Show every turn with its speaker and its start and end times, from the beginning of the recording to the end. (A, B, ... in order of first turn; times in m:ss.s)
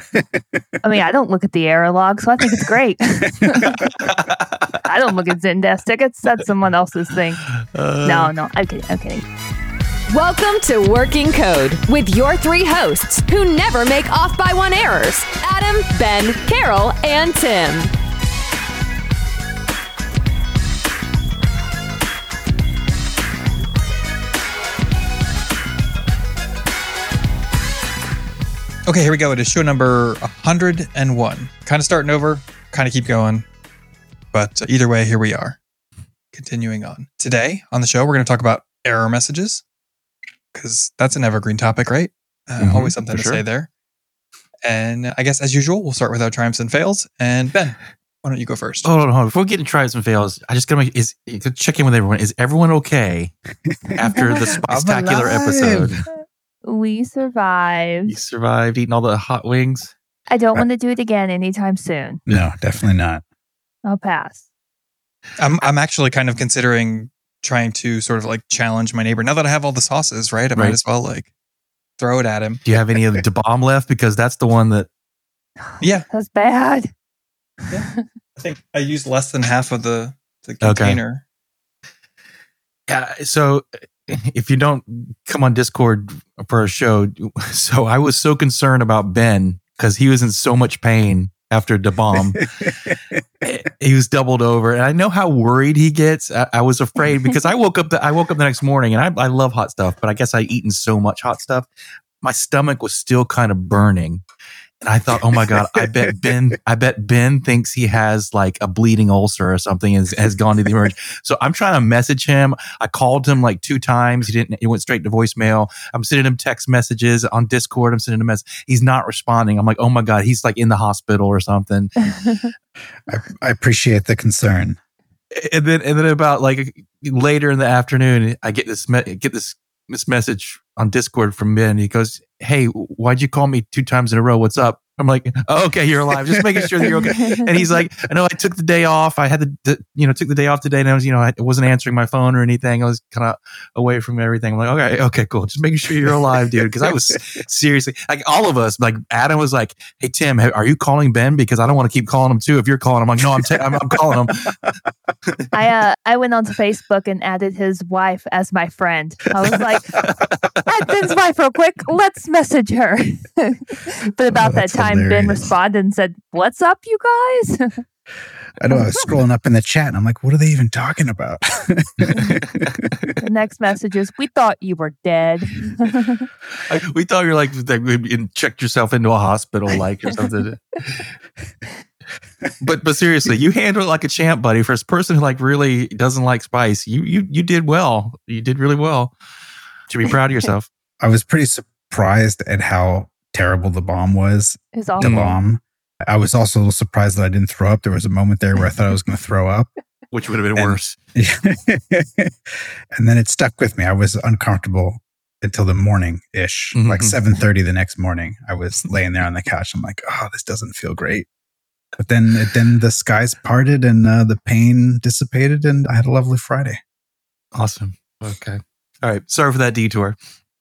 0:00.1-0:00.6 A
0:00.8-0:04.0 B
0:04.0-0:04.7 C
0:04.8-0:07.5 B
0:07.5-0:08.3 C
0:08.0-0:09.2 B
0:10.1-0:17.9 D
0:28.8-0:33.4 E
0:34.3-0:35.6 E
0:36.3-0:39.6 E
0:40.5-0:43.7 E
0:42.6-0:43.4 C
0:44.6-0:48.9 E
0:48.8-0:53.3 C
0:53.9-0:56.0 C
0:54.1-0:54.5 B
0:54.5-0:56.0 A
0:56.6-0:58.2 B
0:58.0-0:59.9 C
1:00.3-1:02.2 B
1:02.3-1:03.2 A
1:03.8-1:04.4 B
1:05.4-1:11.3 E
1:12.0-1:12.6 E
1:12.6-1:14.9 C
1:15.6-1:16.9 B
1:15.8-1:16.1 E
1:17.7-1:18.0 B
1:17.7-1:21.2 E
1:20.6-1:21.0 C
1:22.9-1:32.5 C
1:32.4-1:33.2 A
1:33.4-1:41.7 C
1:42.2-1:44.2 C
1:44.8-2:01.9 C
1:45.4-1:46.3 A
2:02.0-2:02.5 B
2:03.1-2:04.8 A
2:05.3-2:34.7 C
2:16.9-2:17.4 B
2:35.5-2:40.0 B
2:40.0-2:40.6 C
2:40.6-2:47.8 B
2:44.3-2:45.5 A
2:48.6-2:53.1 A
2:48.7-2:49.1 B
2:52.1-2:52.7 C
2:53.2-2:56.3 B
2:56.6-3:01.1 C
3:02.6-3:09.1 C
3:09.9-3:10.7 C
3:11.0-3:19.7 A
3:14.8-3:15.4 B
3:15.0-3:15.4 C
3:20.1-3:21.0 C
3:20.6-3:31.3 A
3:26.7-3:27.2 C
3:32.0-3:36.8 A
3:37.5-3:40.2 C